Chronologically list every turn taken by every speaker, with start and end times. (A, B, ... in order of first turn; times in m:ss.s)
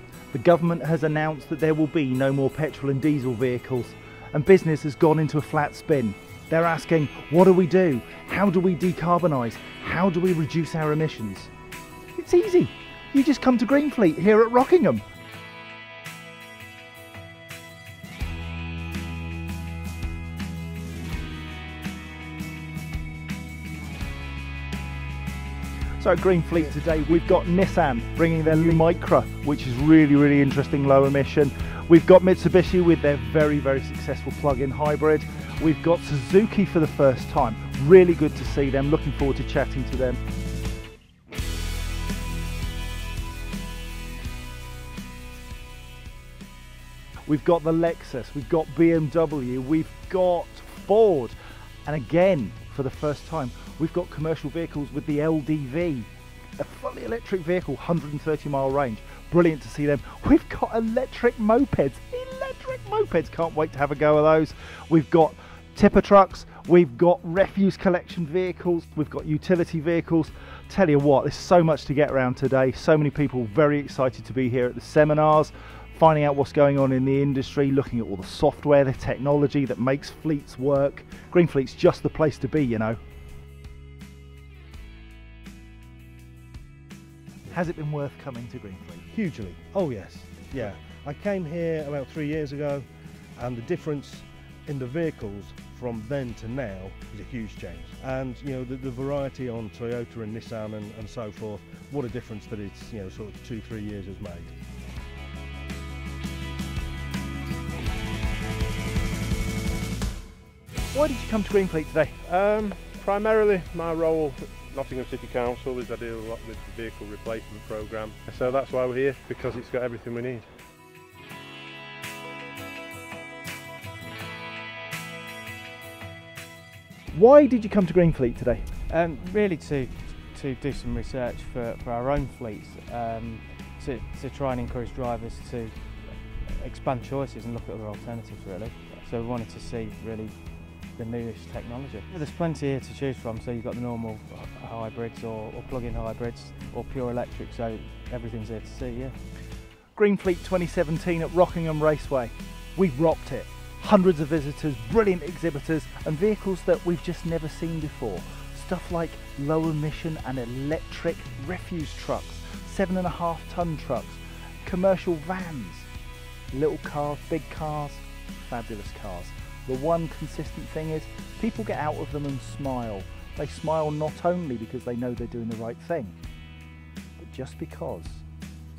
0:00.3-0:11.5 A
0:12.2-0:15.0 A
0:26.0-0:40.2 A
0:47.3-1:23.0 A
1:27.5-1:29.0 A
1:29.1-1:32.8 B
1:33.4-1:44.5 B
1:50.9-1:52.1 A
1:52.2-2:00.5 C
2:07.1-2:08.7 A
2:08.9-2:29.2 D
2:30.0-2:45.9 A
2:46.5-2:56.2 A
2:57.2-2:58.2 A